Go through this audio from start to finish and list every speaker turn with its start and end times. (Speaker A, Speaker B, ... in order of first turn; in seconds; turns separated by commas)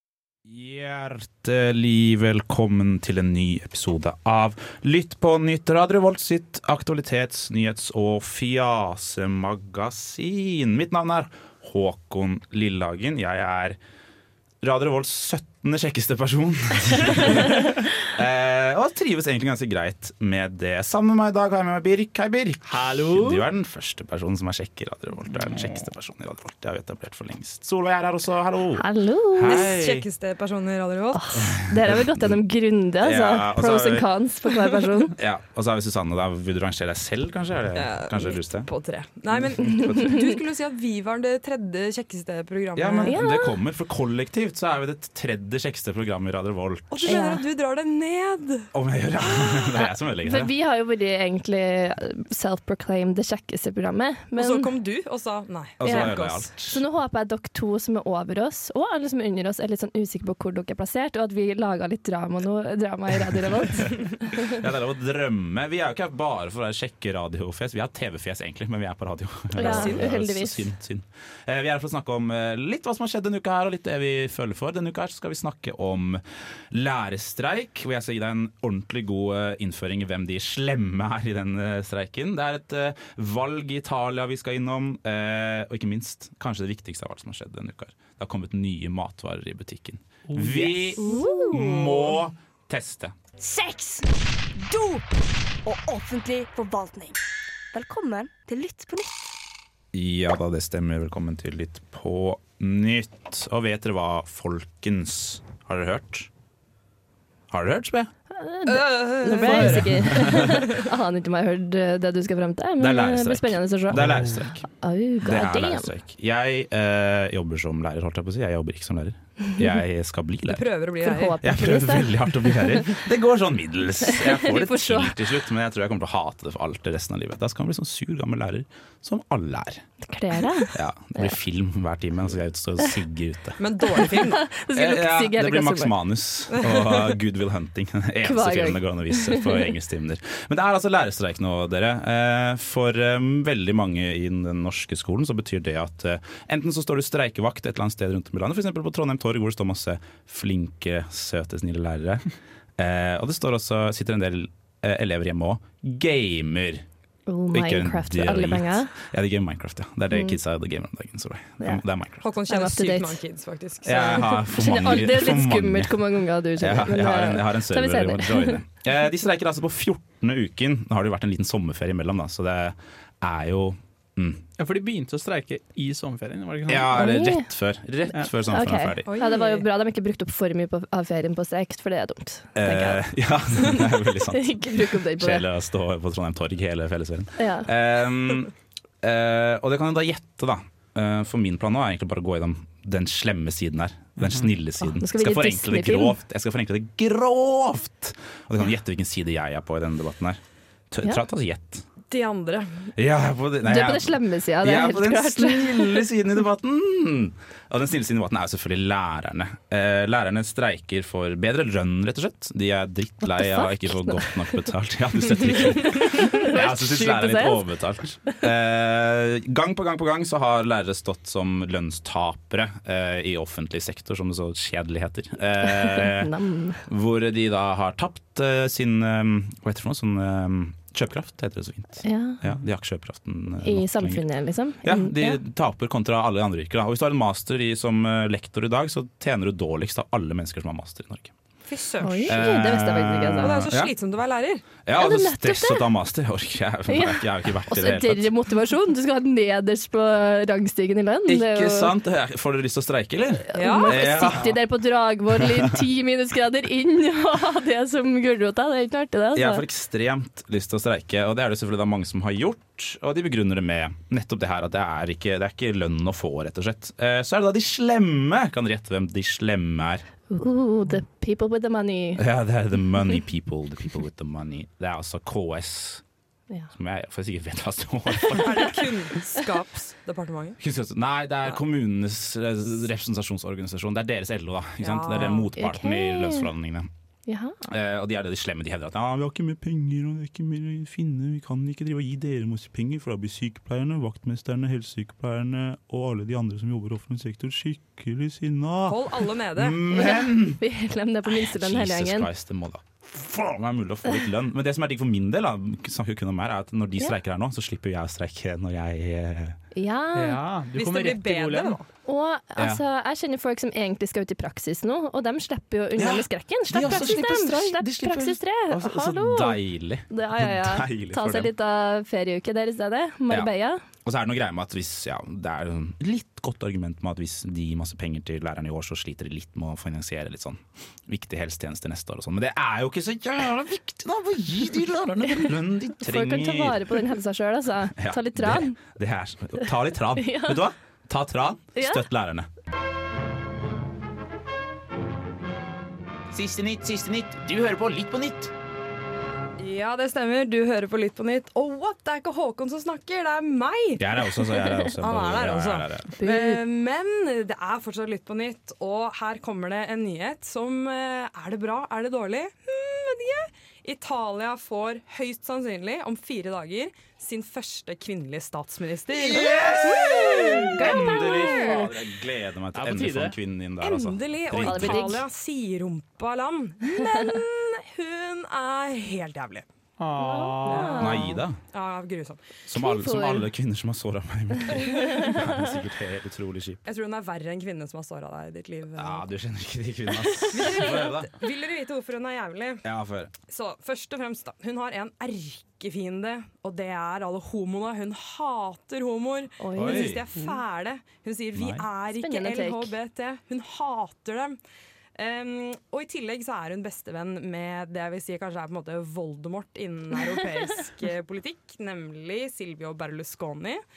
Speaker A: 0.4-13.8, Speaker A: 14.6-30.1, Speaker B: 22.6-23.4, Speaker B: 25.3-25.9, Speaker C: 28.8-29.7, Speaker D: 29.4-31.3, Speaker C: 31.1-35.1, Speaker A: 31.3-32.4, Speaker A: 33.0-34.1, Speaker A: 35.1-38.7, Speaker D: 37.7-43.2, Speaker A: 39.3-40.1, Speaker C: 39.8-40.1, Speaker A: 42.8-47.1, Speaker C: 43.0-43.6, Speaker D: 46.9-48.7, Speaker C: 47.0-47.4, Speaker A: 48.7-50.5, Speaker C: 49.7-54.7, Speaker D: 54.4-56.5, Speaker A: 55.8-56.8, Speaker C: 55.8-64.6, Speaker A: 63.1-93.2, Speaker C: 69.5-70.7, Speaker D: 69.6-70.0, Speaker B: 90.3-92.0, Speaker E: 91.0-91.5, Speaker C: 91.0-91.5, Speaker E: 93.4-97.2, Speaker E: 97.7-99.3, Speaker A: 99.9-106.3, Speaker A: 107.5-108.1, Speaker C: 108.3-115.9, Speaker D: 108.7-110.6, Speaker A: 109.5-110.7, Speaker A: 112.8-114.7, Speaker A: 115.2-120.7, Speaker D: 120.5-121.4, Speaker C: 121.0-123.0, Speaker A: 121.4-129.8, Speaker C: 124.0-125.2, Speaker C: 130.0-131.3, Speaker A: 130.7-134.1, Speaker D: 133.6-134.4, Speaker C: 134.3-135.9, Speaker A: 134.7-152.2, Speaker D: 136.5-137.1, Speaker C: 138.2-139.6, Speaker A: 152.8-156.8, Speaker C: 157.3-158.9, Speaker A: 157.5-162.2, Speaker C: 160.1-160.4, Speaker D: 162.2-164.4, Speaker C: 162.4-163.2, Speaker A: 163.8-174.4, Speaker C: 164.3-168.6, Speaker B: 174.6-177.1, Speaker A: 176.7-179.1, Speaker C: 176.9-177.5, Speaker C: 178.5-185.5, Speaker D: 179.0-179.7, Speaker A: 182.5-200.4, Speaker C: 187.4-187.7, Speaker C: 194.8-196.2, Speaker A: 200.9-201.8, Speaker D: 202.1-202.9, Speaker A: 202.9-234.2, Speaker C: 203.6-206.1, Speaker C: 213.2-214.7, Speaker C: 215.4-217.6, Speaker C: 225.6-226.8, Speaker C: 232.0-232.4, Speaker C: 233.6-235.4, Speaker A: 234.8-241.3, Speaker D: 241.7-242.3, Speaker C: 242.0-243.6, Speaker A: 242.2-243.9, Speaker D: 243.4-244.7, Speaker A: 244.8-248.3, Speaker C: 244.9-245.9, Speaker C: 246.9-251.9, Speaker A: 251.3-254.6, Speaker C: 253.5-259.6, Speaker D: 253.5-254.0, Speaker A: 255.3-255.8, Speaker A: 259.3-270.1, Speaker C: 270.3-272.2, Speaker A: 272.2-276.0, Speaker A: 276.7-278.9, Speaker D: 278.3-280.6, Speaker A: 280.6-286.9, Speaker D: 284.8-285.5, Speaker C: 285.6-286.5, Speaker C: 287.3-287.6, Speaker A: 287.6-300.6, Speaker D: 298.9-299.9, Speaker C: 299.9-302.3, Speaker A: 301.2-309.6, Speaker C: 309.7-310.4, Speaker B: 310.1-311.8, Speaker D: 310.7-311.9, Speaker C: 312.1-323.8, Speaker A: 312.6-312.8, Speaker A: 315.9-321.5, Speaker A: 324.0-337.0, Speaker C: 336.0-338.8, Speaker A: 337.9-342.5, Speaker C: 340.2-340.7, Speaker C: 341.8-342.1, Speaker A: 346.3-348.5, Speaker D: 349.6-354.1, Speaker A: 354.0-356.1, Speaker C: 354.6-354.9, Speaker D: 355.0-371.1, Speaker C: 356.2-356.6, Speaker A: 369.1-375.2, Speaker C: 369.4-371.9, Speaker B: 372.7-373.4, Speaker D: 373.8-379.6, Speaker C: 374.5-375.2, Speaker B: 380.0-381.2, Speaker C: 380.2-381.4, Speaker D: 380.6-381.1, Speaker A: 380.9-381.6, Speaker D: 381.7-382.4, Speaker A: 382.6-386.8, Speaker C: 382.7-383.5, Speaker C: 384.7-385.5, Speaker D: 386.9-389.2, Speaker A: 388.9-391.3, Speaker D: 390.5-392.8, Speaker A: 392.8-393.3, Speaker D: 393.5-404.6, Speaker C: 399.6-400.5, Speaker A: 399.8-400.2, Speaker A: 401.5-401.9, Speaker C: 402.1-402.9, Speaker D: 405.1-413.8